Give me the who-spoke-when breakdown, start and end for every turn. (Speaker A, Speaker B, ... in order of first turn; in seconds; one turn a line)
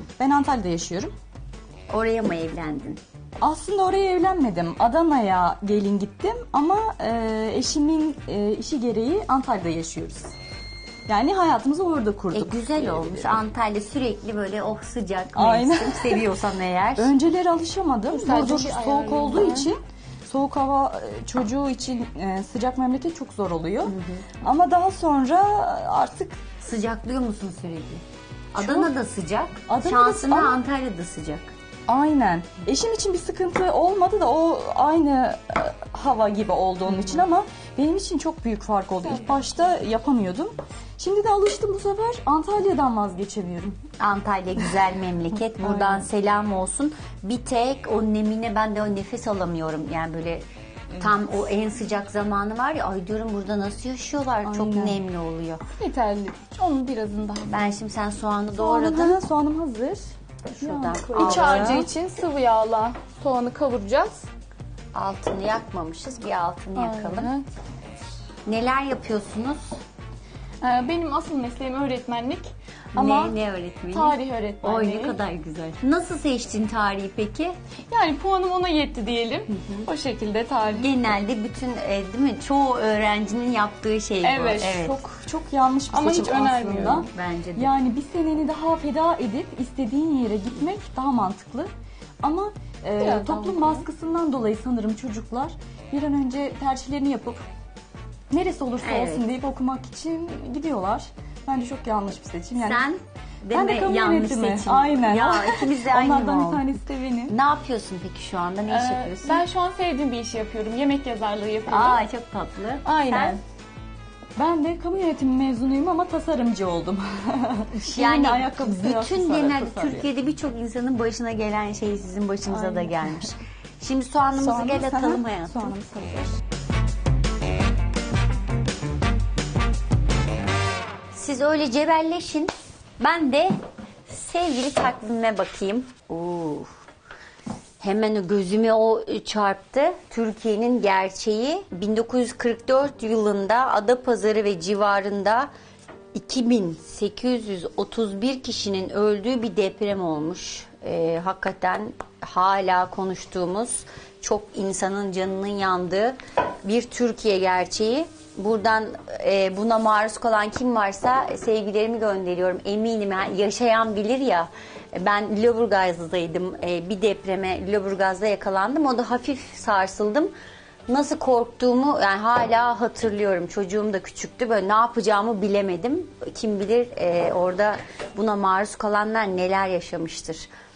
Speaker A: 0.2-1.1
Speaker B: 1.9-3.0
Speaker A: 3.4-10.3
Speaker A: 11.1-13.1
Speaker B: 12.3-17.1
Speaker A: 15.4-16.3
Speaker A: 17.0-26.4
Speaker C: 18.1-19.7
Speaker B: 23.9-24.3
Speaker B: 26.6-28.0
Speaker B: 28.5-31.5
Speaker A: 28.6-28.9
Speaker A: 29.7-30.6
Speaker A: 31.9-43.8
Speaker B: 37.0-37.2
Speaker C: 39.1-39.8
Speaker B: 44.0-50.5
Speaker A: 45.7-46.0
Speaker B: 51.0-55.6
Speaker A: 54.4-55.0
Speaker C: 55.8-57.5
Speaker B: 57.5-59.2
Speaker A: 58.6-61.9
Speaker B: 60.5-61.9
Speaker C: 61.1-64.3
Speaker B: 64.9-67.3
Speaker C: 66.8-67.5
Speaker B: 68.5-69.6
Speaker C: 70.6-73.4
Speaker B: 72.9-77.5
Speaker C: 73.9-75.2
Speaker C: 77.9-80.9
Speaker B: 79.5-79.9
Speaker B: 80.8-85.0
Speaker C: 84.2-84.8
Speaker A: 84.6-91.7
Speaker C: 85.9-87.1
Speaker B: 87.0-87.7
Speaker A: 92.2-97.4
Speaker C: 93.0-93.9
Speaker A: 98.3-102.8
Speaker B: 98.8-99.3
Speaker B: 102.6-106.7
Speaker A: 103.5-107.3
Speaker B: 107.3-109.4
Speaker C: 108.7-112.0
Speaker B: 111.7-113.4
Speaker C: 112.8-113.4
Speaker A: 114.4-120.1
Speaker B: 117.8-125.8
Speaker A: 122.5-123.1
Speaker A: 124.4-126.4
Speaker B: 131.1-133.5
Speaker B: 134.1-136.7
Speaker B: 137.8-145.5
Speaker B: 146.1-170.3
Speaker B: 170.9-180.5